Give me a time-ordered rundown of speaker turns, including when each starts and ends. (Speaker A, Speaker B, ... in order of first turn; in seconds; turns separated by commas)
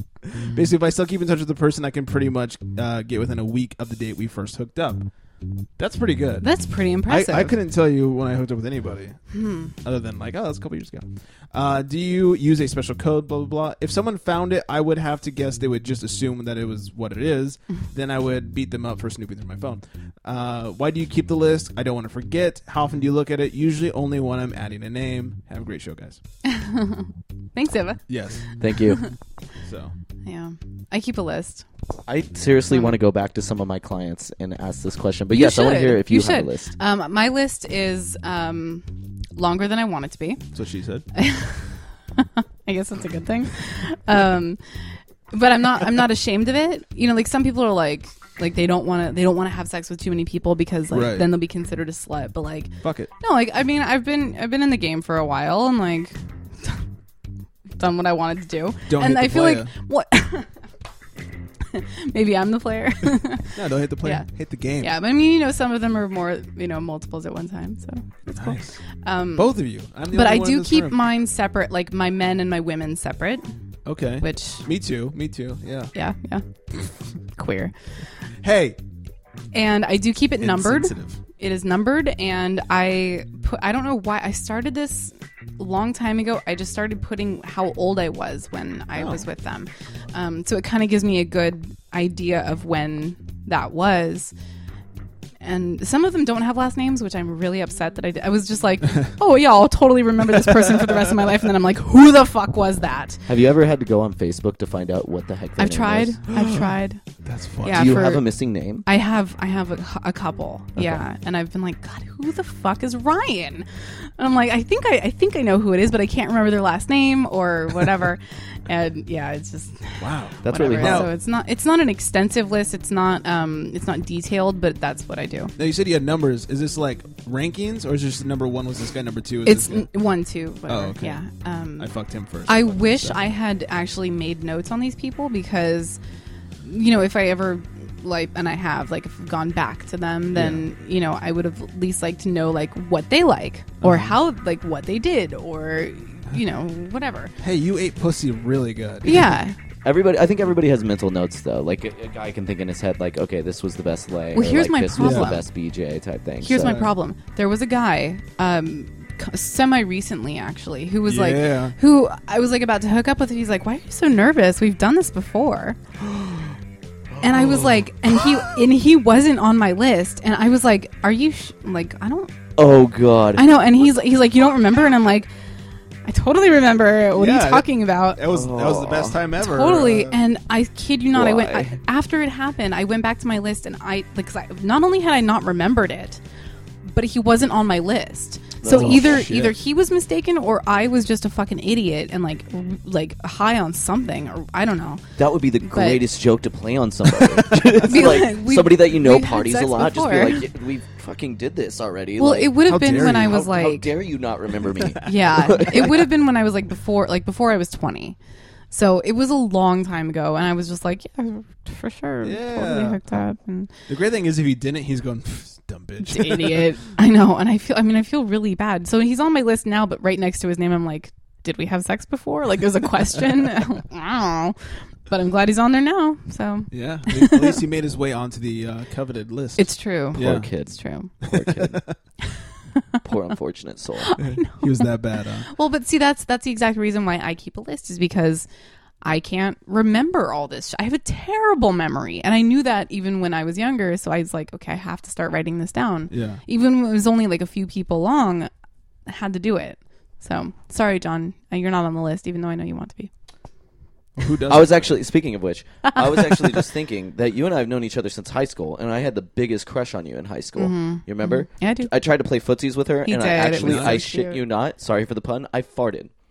Speaker A: 0.4-5.1, Speaker A: 5.8-6.5, Speaker B: 6.4-7.6, Speaker A: 7.1-9.2, Speaker B: 9.3-9.7, Speaker A: 9.8-26.2, Speaker B: 26.4-28.1, Speaker A: 28.1-28.6, Speaker C: 28.6-29.1, Speaker A: 29.6-29.9, Speaker B: 30.2-31.6, Speaker C: 32.1-36.7, Speaker B: 35.3-40.4, Speaker A: 40.5-41.0, Speaker B: 41.1-44.6, Speaker B: 45.3-56.8, Speaker A: 50.9-51.3, Speaker A: 52.8-53.1, Speaker B: 57.8-60.5, Speaker A: 58.9-59.7, Speaker B: 61.7-64.3, Speaker A: 63.5-65.0, Speaker B: 64.8-69.6, Speaker A: 68.3-68.8, Speaker A: 69.3-71.0, Speaker B: 70.1-73.5, Speaker A: 73.9-75.9, Speaker B: 74.2-74.7, Speaker B: 75.9-76.5, Speaker B: 77.3-77.8, Speaker A: 78.4-78.8, Speaker B: 79.5-94.3, Speaker A: 80.4-81.2, Speaker A: 89.0-89.3, Speaker B: 95.4-103.3, Speaker C: 103.3-106.2, Speaker B: 105.6-107.0, Speaker A: 106.3-106.7, Speaker A: 107.2-108.0, Speaker B: 107.6-108.3, Speaker C: 107.7-108.9, Speaker B: 108.8-125.5, Speaker C: 110.8-111.0, Speaker A: 120.0-121.1, Speaker C: 120.4-121.1, Speaker A: 125.6-129.9, Speaker B: 129.4-131.9, Speaker A: 130.7-131.2, Speaker A: 131.8-133.3, Speaker B: 132.5-136.0, Speaker B: 136.6-147.3, Speaker A: 140.3-140.7, Speaker A: 143.8-144.2, Speaker A: 147.4-149.3, Speaker B: 149.1-149.6, Speaker C: 149.8-156.8, Speaker B: 154.3-155.5, Speaker A: 155.0-155.3, Speaker B: 156.4-165.8, Speaker A: 156.6-156.9, Speaker A: 161.1-161.8, Speaker A: 166.0-166.6, Speaker B: 167.2-172.5, Speaker C: 172.6-173.5, Speaker B: 173.3-175.3, Speaker B: 176.1-178.2, Speaker A: 177.1-180.2, Speaker C: 178.3-179.3, Speaker B: 179.4-186.2, Speaker C: 181.1-181.8, Speaker B: 186.8-195.1, Speaker C: 188.6-189.3, Speaker A: 188.7-189.6, Speaker C: 195.2-206.1, Speaker B: 195.6-196.0, Speaker A: 197.4-197.8, Speaker B: 197.8-200.5, Speaker B: 202.2-203.9, Speaker A: 202.6-203.5, Speaker A: 204.8-205.6, Speaker B: 205.0-208.2, Speaker B: 208.7-213.7, Speaker A: 212.2-213.0, Speaker A: 213.9-216.7, Speaker B: 216.0-227.6, Speaker A: 226.7-230.5, Speaker B: 229.6-231.2, Speaker C: 230.2-231.8, Speaker A: 231.3-232.0, Speaker C: 233.1-234.1, Speaker B: 234.0-234.9, Speaker A: 234.2-235.5, Speaker B: 235.5-238.5, Speaker B: 239.0-248.5, Speaker A: 246.1-246.4, Speaker B: 249.1-253.1, Speaker A: 254.2-255.0, Speaker C: 254.5-266.1, Speaker B: 256.0-256.6, Speaker B: 260.6-261.9, Speaker B: 263.1-264.4, Speaker A: 263.5-264.0